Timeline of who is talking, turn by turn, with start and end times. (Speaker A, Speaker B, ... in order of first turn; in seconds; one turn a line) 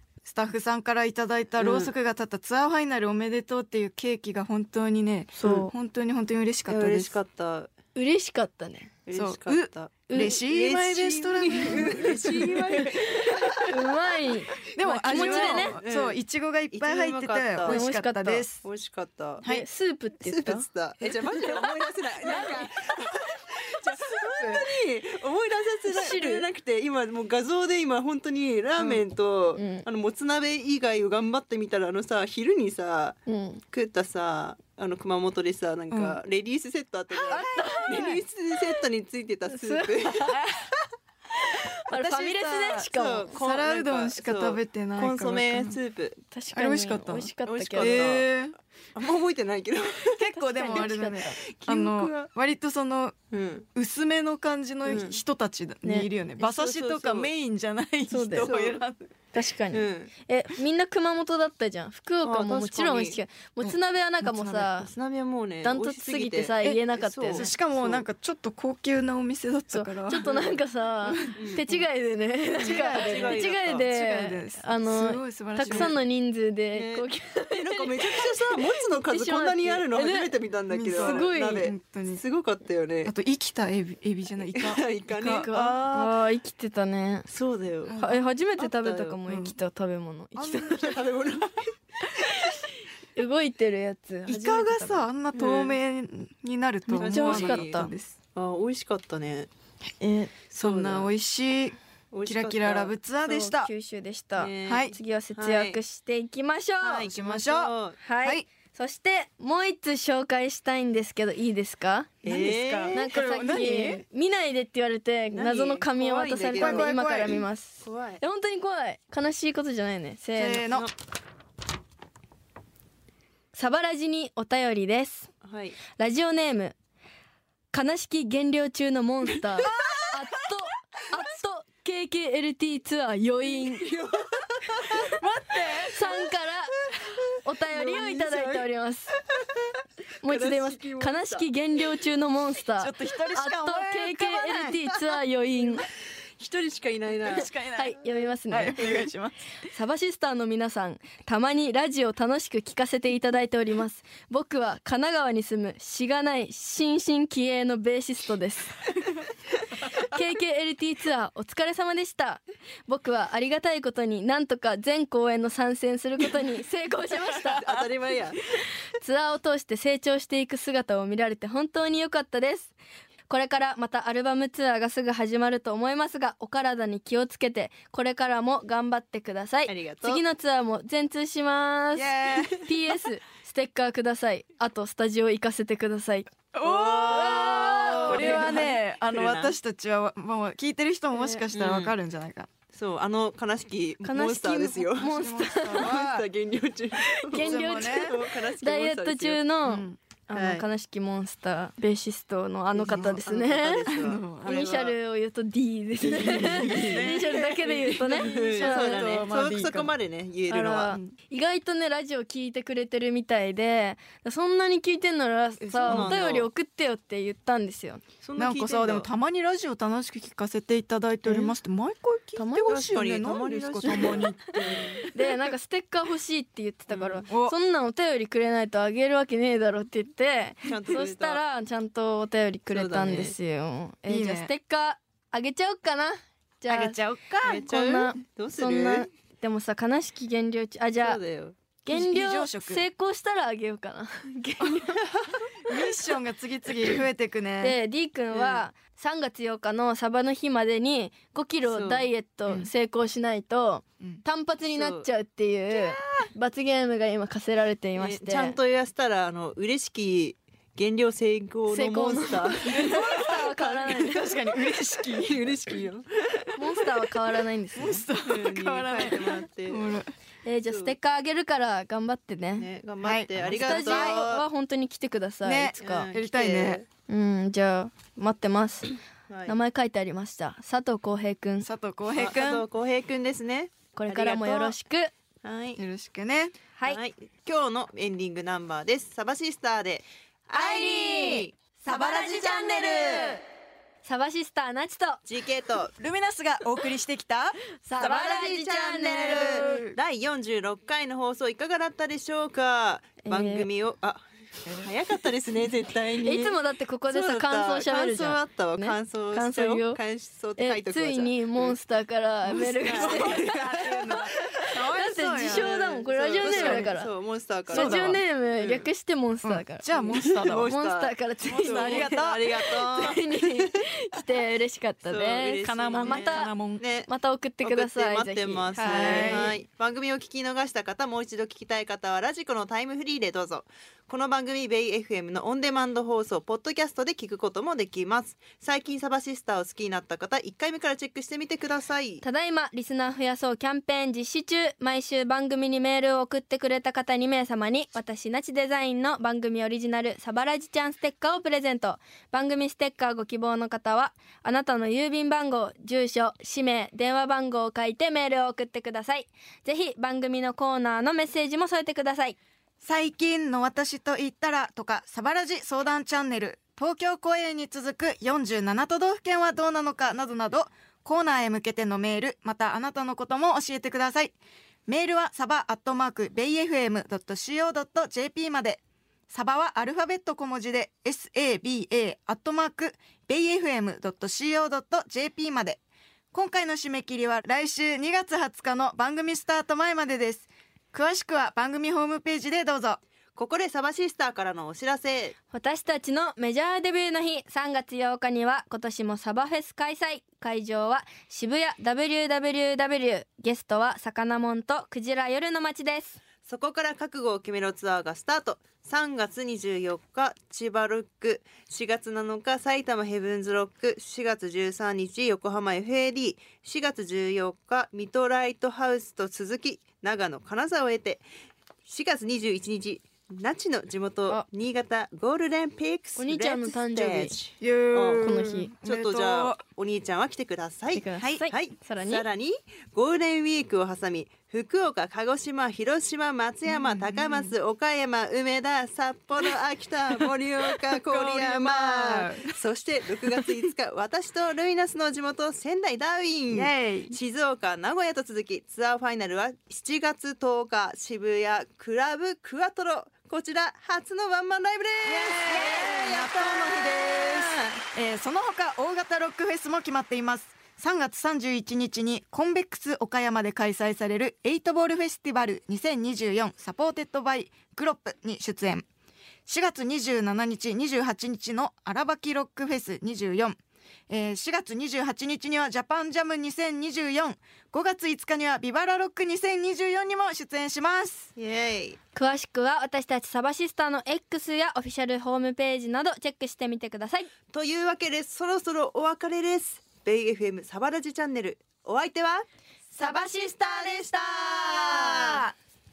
Speaker A: 0.2-7.1
Speaker B: 1.6-1.9
Speaker C: 5.4-5.7
Speaker B: 6.7-7.7
Speaker C: 7.9-8.9
Speaker B: 9.1-13.7
Speaker A: 9.1-13.7
Speaker C: 10.1-10.3
Speaker C: 13.7-15.8
Speaker A: 14.7-18.6
Speaker B: 15.1-16.2
Speaker B: 16.7-17.8
Speaker C: 17.6-18.4
Speaker B: 18.6-19.4
Speaker C: 19.4-20.6
Speaker B: 20.2-33.2
Speaker A: 22.2-23.0
Speaker C: 22.3-22.6
Speaker A: 23.8-24.7
Speaker C: 25.9-26.4
Speaker C: 29.6-29.9
Speaker C: 33.3-33.6
Speaker B: 33.7-40.4
Speaker A: 35.9-36.2
Speaker C: 37.2-38.1
Speaker A: 37.3-38.2
Speaker C: 39.5-40.6
Speaker C: 41.4-43.3
Speaker A: 41.9-45.8
Speaker B: 42.9-46.2
Speaker C: 46.3-48.1
Speaker A: 46.5-48.5
Speaker B: 47.5-48.3
Speaker B: 48.9-50.2
Speaker A: 50.1-53.1
Speaker C: 50.3-51.4
Speaker B: 51.4-52.3
Speaker B: 53.3-53.6
Speaker A: 53.7-59.0
Speaker B: 54.9-55.2
Speaker B: 56.4-57.3
Speaker C: 58.1-58.5
Speaker B: 58.4-58.8
Speaker C: 59.3-64.9
Speaker B: 59.7-60.1
Speaker B: 62.2-63.2
Speaker A: 63.6-64.7
Speaker B: 64.8-68.0
Speaker C: 65.6-67.5
Speaker A: 67.3-70.3
Speaker C: 69.7-80.3
Speaker B: 70.2-70.5
Speaker A: 71.0-71.4
Speaker B: 71.3-71.7
Speaker A: 72.5-76.0
Speaker B: 72.6-73.9
Speaker B: 75.7-76.0
Speaker B: 76.7-83.1
Speaker A: 80.7-82.2
Speaker C: 80.9-81.7
Speaker A: 83.0-85.5
Speaker B: 84.5-86.2
Speaker C: 85.4-87.3
Speaker B: 87.3-88.0
Speaker A: 87.8-88.2
Speaker C: 88.0-91.0
Speaker B: 88.6-89.2
Speaker A: 89.3-89.5
Speaker A: 90.3-91.0
Speaker B: 90.8-91.7
Speaker C: 92.3-92.6
Speaker C: 93.2-95.0
Speaker A: 94.3-98.2
Speaker B: 95.3-95.8
Speaker B: 96.9-99.5
Speaker C: 97.0-97.9
Speaker C: 100.0-100.3
Speaker A: 100.3-103.7
Speaker B: 100.5-101.1
Speaker B: 102.1-102.9
Speaker C: 103.2-107.1
Speaker B: 104.4-105.8
Speaker A: 104.7-104.9
Speaker B: 106.8-108.0
Speaker A: 107.0-108.4
Speaker C: 108.0-112.3
Speaker B: 112.2-113.0
Speaker A: 112.2-114.0
Speaker C: 112.9-120.7
Speaker B: 115.3-116.9
Speaker A: 116.5-117.4
Speaker B: 117.8-118.2
Speaker A: 120.3-120.9
Speaker C: 123.5-125.3
Speaker B: 125.4-125.8
Speaker C: 126.0-126.7
Speaker C: 127.7-133.9
Speaker A: 129.6-130.0
Speaker B: 133.6-135.1
Speaker A: 135.0-136.1
Speaker C: 135.9-136.8
Speaker C: 137.4-139.1
Speaker B: 137.7-138.6
Speaker C: 140.2-145.9
Speaker B: 140.2-141.5
Speaker A: 142.8-144.8
Speaker B: 146.4-147.5
Speaker A: 147.2-149.4
Speaker C: 147.7-148.8
Speaker C: 149.7-158.8
Speaker C: 159.9-167.6
Speaker B: 167.5-168.4
Speaker C: 169.0-172.7
Speaker C: 173.3-186.5
Speaker B: 179.7-180.2
Speaker A: 181.9-182.7
Speaker A: 186.5-192.5
Speaker B: 186.6-189.5
Speaker C: 187.0-188.8
Speaker C: 191.2-191.4
Speaker B: 191.5-191.9
Speaker B: 192.7-195.1
Speaker C: 194.0-195.9
Speaker A: 195.0-196.2
Speaker B: 195.7-199.4
Speaker C: 197.3-203.8
Speaker A: 197.3-198.2
Speaker A: 199.6-200.0
Speaker B: 200.3-200.6
Speaker B: 202.7-204.9
Speaker A: 203.9-204.7
Speaker C: 204.4-209.1
Speaker A: 206.1-209.9
Speaker B: 206.1-211.0
Speaker C: 210.5-218.0
Speaker B: 215.6-216.5
Speaker A: 215.8-216.2
Speaker B: 218.2-219.1
Speaker A: 218.3-225.5
Speaker C: 222.3-222.7
Speaker B: 222.7-225.1
Speaker C: 225.1-241.2
Speaker B: 226.9-227.2
Speaker A: 227.3-227.5
Speaker B: 230.6-231.4
Speaker B: 232.7-233.3
Speaker A: 234.1-234.5
Speaker A: 236.7-237.6
Speaker B: 237.4-239.1
Speaker B: 241.0-241.6
Speaker C: 241.8-245.0
Speaker A: 241.9-242.8
Speaker A: 245.6-247.8
Speaker C: 247.6-258.6
Speaker B: 248.3-248.6
Speaker B: 251.6-252.1
Speaker B: 254.7-255.1
Speaker A: 255.7-256.2
Speaker B: 258.0-263.0
Speaker C: 261.7-264.2
Speaker A: 262.7-267.2
Speaker B: 263.6-264.1
Speaker B: 265.1-266.0
Speaker C: 266.6-268.0
Speaker A: 267.7-270.1
Speaker B: 268.2-269.8
Speaker C: 270.4-272.7
Speaker B: 270.7-270.9
Speaker B: 272.6-274.4
Speaker A: 273.0-274.2
Speaker C: 273.5-276.1
Speaker A: 275.4-276.8
Speaker B: 275.8-276.8
Speaker C: 277.1-278.9
Speaker B: 279.3-279.6
Speaker C: 279.4-281.7
Speaker A: 281.6-282.6
Speaker B: 282.1-284.8
Speaker C: 283.9-285.1
Speaker B: 285.4-285.8
Speaker A: 285.8-286.5
Speaker B: 286.9-293.3
Speaker C: 290.5-293.4
Speaker C: 294.0-295.2
Speaker B: 295.2-295.9
Speaker A: 296.0-298.3
Speaker C: 297.8-299.9
Speaker B: 298.0-304.2
Speaker A: 299.3-299.9
Speaker C: 303.2-303.7
Speaker B: 304.7-311.8
Speaker C: 306.2-310.0
Speaker C: 310.6-313.5
Speaker A: 312.4-315.7
Speaker B: 312.8-314.3
Speaker C: 314.9-317.1
Speaker B: 315.4-318.9
Speaker A: 316.4-316.9
Speaker C: 317.7-329.5
Speaker A: 317.7-318.2
Speaker A: 319.4-320.7
Speaker B: 320.1-323.7
Speaker A: 321.4-322.5
Speaker B: 325.1-327.1
Speaker A: 325.6-326.8
Speaker B: 327.6-342.2
Speaker A: 328.8-329.6
Speaker C: 342.2-362.4
Speaker A: 362.8-374.4
Speaker A: 374.9-385.8
Speaker A: 386.3-393.0
Speaker B: 393.4-395.3
Speaker C: 395.5-406.2
Speaker B: 406.4-421.2
Speaker B: 421.9-428.3
Speaker C: 426.2-427.3
Speaker A: 427.6-429.6
Speaker C: 428.2-428.7
Speaker B: 428.8-457.8
Speaker C: 430.9-432.2
Speaker A: 436.7-437.5
Speaker A: 440.2-442.5
Speaker A: 443.2-443.6
Speaker A: 446.5-447.2
Speaker A: 455.0-468.9
Speaker A: 469.4-473.6
Speaker A: 474.1-481.3
Speaker B: 481.4-482.0
Speaker C: 482.1-487.3
Speaker B: 487.5-492.4
Speaker C: 492.9-494.3
Speaker A: 493.0-493.3
Speaker A: 494.4-495.4
Speaker B: 494.5-495.4
Speaker C: 495.0-495.4